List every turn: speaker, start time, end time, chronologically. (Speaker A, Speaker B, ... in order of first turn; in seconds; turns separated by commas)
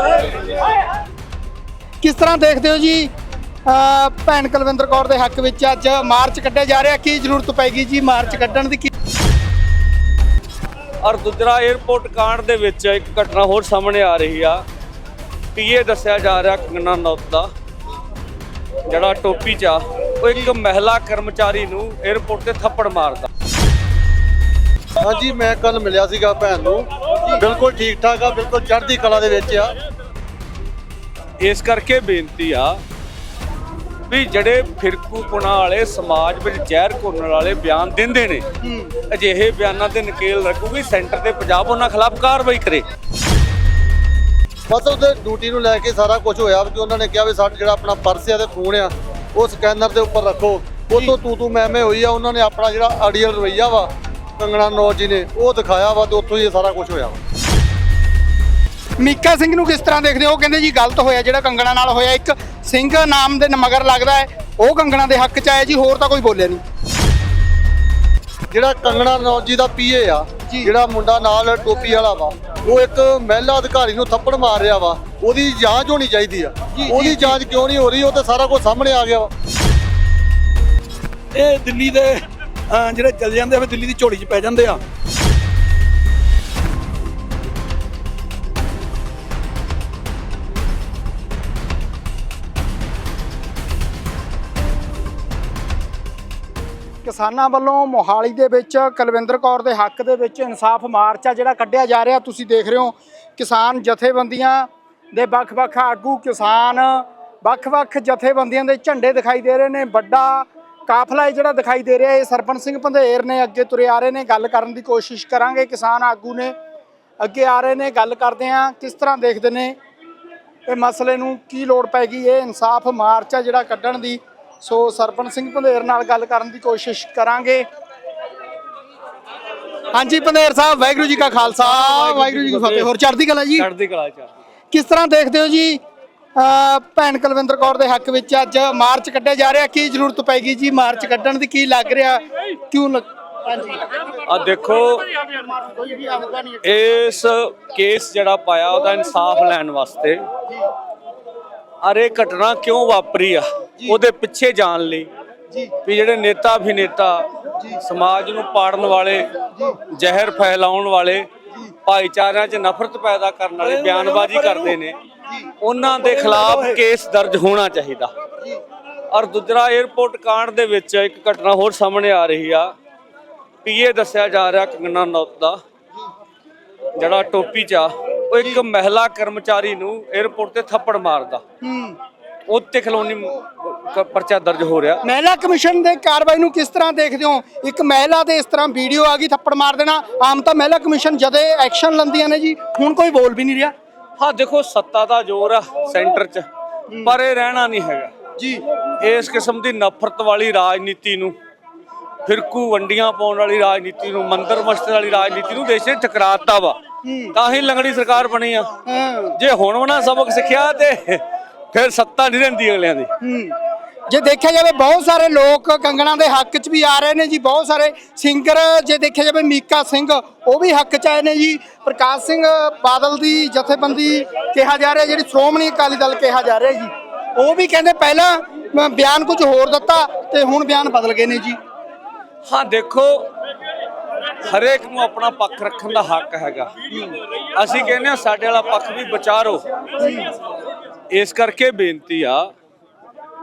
Speaker A: 2.0-3.1, Speaker A: 3.7-8.9, Speaker B: 11.0-14.6, Speaker B: 15.5-17.5, Speaker B: 18.9-23.3, Speaker C: 25.0-29.7, Speaker B: 31.4-32.8, Speaker B: 34.1-38.4, Speaker A: 38.6-38.9, Speaker B: 39.1-42.8, Speaker C: 44.7-57.2, Speaker A: 59.0-66.6, Speaker C: 68.5-79.3, Speaker A: 76.7-77.3, Speaker D: 81.3-84.8, Speaker A: 97.0-116.5, Speaker A: 117.2-119.8, Speaker A: 120.7-127.7, Speaker A: 129.9-133.7, Speaker B: 131.3-132.9, Speaker B: 133.6-134.3, Speaker A: 134.7-135.8, Speaker A: 136.3-144.0, Speaker B: 144.2-145.2, Speaker A: 145.3-146.6, Speaker B: 146.6-150.2, Speaker B: 151.8-155.1, Speaker B: 155.8-161.3, Speaker A: 159.5-159.8, Speaker B: 161.8-165.0, Speaker D: 163.6-164.8, Speaker B: 165.6-168.1, Speaker D: 166.0-166.8, Speaker B: 169.1-172.7, Speaker B: 173.6-175.6, Speaker B: 176.9-181.4, Speaker A: 181.6-181.9, Speaker B: 182.5-185.0, Speaker A: 185.0-193.7, Speaker B: 194.2-196.4, Speaker A: 196.9-197.1, Speaker B: 197.0-198.1, Speaker A: 198.4-198.6, Speaker B: 199.0-201.3, Speaker B: 202.2-206.8, Speaker A: 207.0-207.3, Speaker B: 207.3-208.7, Speaker A: 208.8-209.3, Speaker B: 209.3-213.1, Speaker A: 213.2-213.5, Speaker A: 214.1-231.6, Speaker B: 232.4-233.3, Speaker B: 234.4-236.7, Speaker A: 236.9-237.2, Speaker B: 237.5-239.6, Speaker A: 240.0-240.3, Speaker B: 241.1-242.5